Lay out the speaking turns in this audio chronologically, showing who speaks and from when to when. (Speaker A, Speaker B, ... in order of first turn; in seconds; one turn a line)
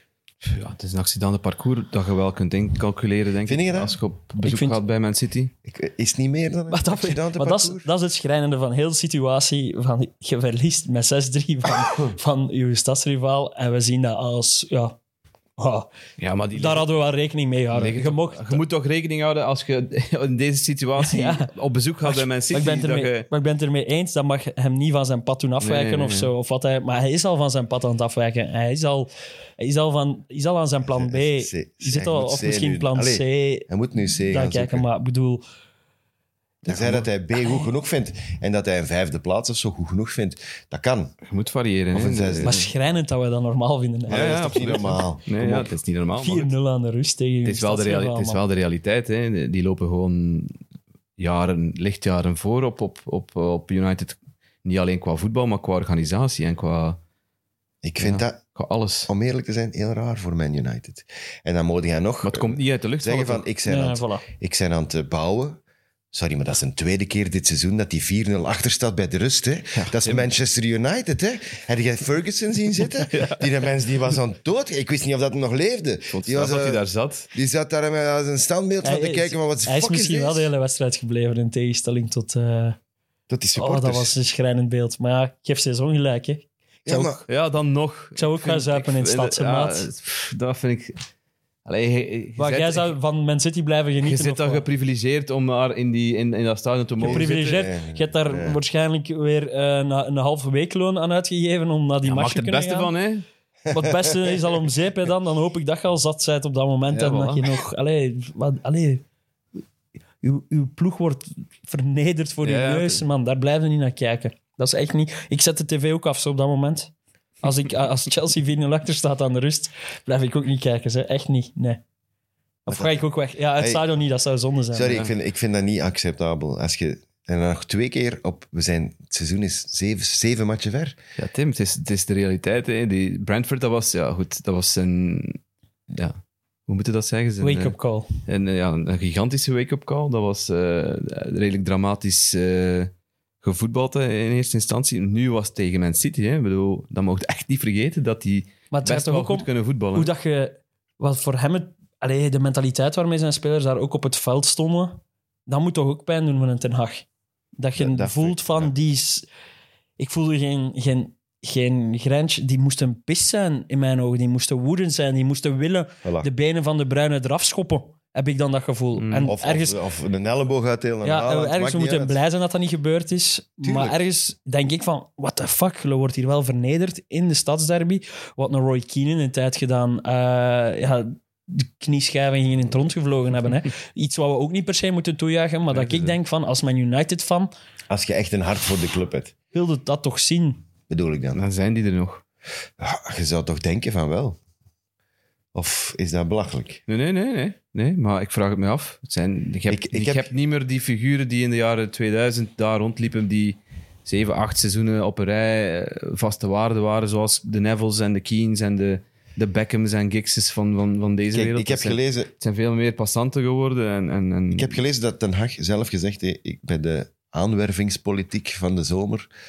Speaker A: 0.4-5.5
Speaker B: 3.5-4.0
Speaker C: 4.4-4.8
Speaker B: 5.7-7.9
Speaker C: 6.7-15.0
Speaker C: 15.6-15.9
Speaker A: 16.2-16.9
Speaker C: 16.5-18.6
Speaker A: 17.7-23.3
Speaker C: 21.0-21.5
Speaker C: 22.1-35.4
Speaker A: 25.6-26.3
Speaker B: 30.8-34.9
Speaker B: 36.7-41.1
Speaker C: 37.4-37.7
Speaker A: 41.2-42.7
Speaker B: 41.9-42.6
Speaker C: 42.4-44.9
Speaker B: 44.1-45.8
Speaker A: 44.1-46.5
Speaker C: 46.2-48.4
Speaker A: 47.5-50.6
Speaker A: 51.2-57.0
Speaker B: 57.8-58.4
Speaker A: 58.0-59.1
Speaker B: 59.1-65.6
Speaker A: 62.2-63.5
Speaker C: 63.6-64.2
Speaker B: 66.1-76.8
Speaker A: 69.8-70.3
Speaker A: 73.0-73.4
Speaker A: 76.1-77.3
Speaker B: 77.3-80.5
Speaker C: 78.8-82.8
Speaker B: 83.3-84.1
Speaker C: 83.6-87.2
Speaker B: 86.8-87.2
Speaker A: 87.3-91.0
Speaker C: 88.2-89.9
Speaker A: 91.7-92.9
Speaker C: 92.4-94.7
Speaker A: 94.0-97.6
Speaker C: 97.0-102.9
Speaker B: 97.0-98.6
Speaker A: 102.0-103.2
Speaker C: 103.7-109.0
Speaker B: 103.7-104.1
Speaker A: 106.9-107.6
Speaker C: 110.2-121.8
Speaker A: 112.4-113.0
Speaker C: 122.7-125.1
Speaker B: 122.7-123.0
Speaker B: 123.6-123.8
Speaker B: 124.7-131.0
Speaker A: 131.2-135.4
Speaker A: 135.9-142.9
Speaker C: 137.4-138.1
Speaker A: 143.4-150.1
Speaker C: 148.7-157.1
Speaker C: 157.6-159.3
Speaker B: 157.8-158.7
Speaker C: 160.0-169.8
Speaker B: 166.0-166.3
Speaker A: 169.0-169.3
Speaker B: 169.3-172.2
Speaker C: 171.0-187.5
Speaker B: 173.6-174.0
Speaker A: 185.7-186.2
Speaker B: 187.9-189.3
Speaker C: 189.5-190.6
Speaker B: 190.9-191.4
Speaker A: 191.3-192.2
Speaker B: 192.8-194.4
Speaker B: 195.5-196.8
Speaker A: 196.9-214.8
Speaker B: 199.7-200.3
Speaker B: 211.3-212.3
Speaker B: 214.5-219.3